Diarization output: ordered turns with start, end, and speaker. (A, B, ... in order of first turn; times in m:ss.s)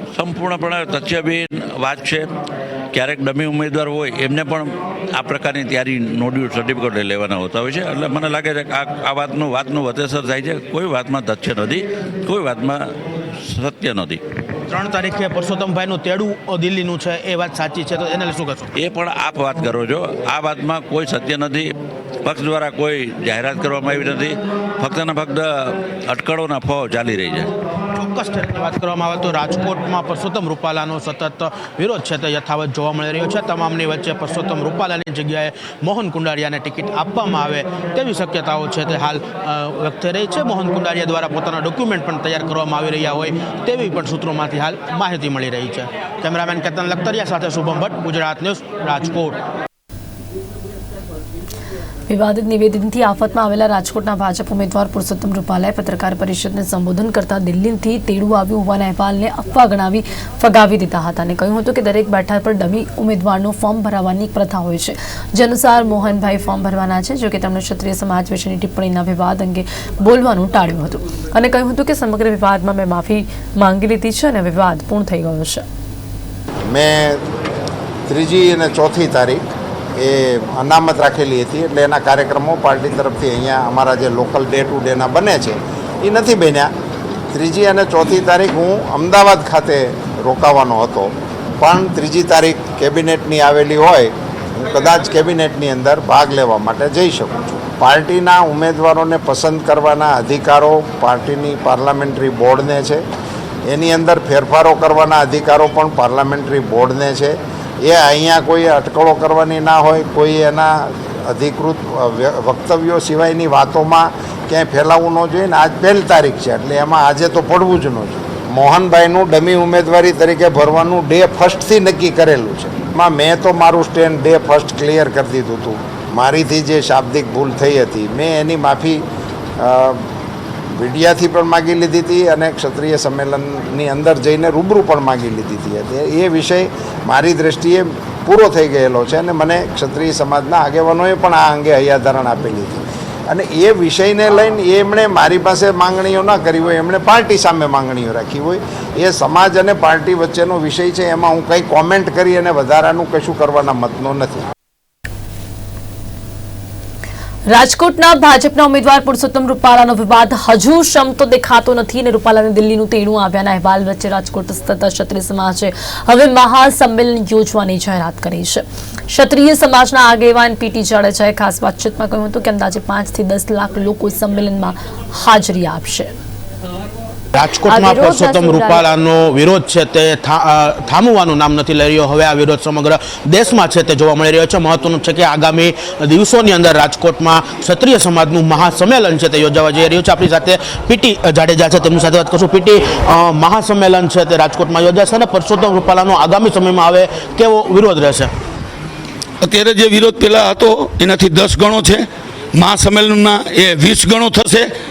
0:00.1-0:02.3 A
0:02.9-0:14.2 A
0:14.7-0:18.7 B
0:18.7-0:27.5 A
0:27.9-0:49.4 B
0:52.1-1:15.6 C
1:16.7-1:17.2 D
1:18.1-1:19.4 D
1:20.0-1:26.7 D
1:27.3-1:43.0 D
1:43.6-2:09.0 D
2:09.6-2:10.0 D
2:10.7-2:34.4 D
2:37.5-2:56.1 C
2:57.3-3:18.3 B
3:19.4-3:24.7 E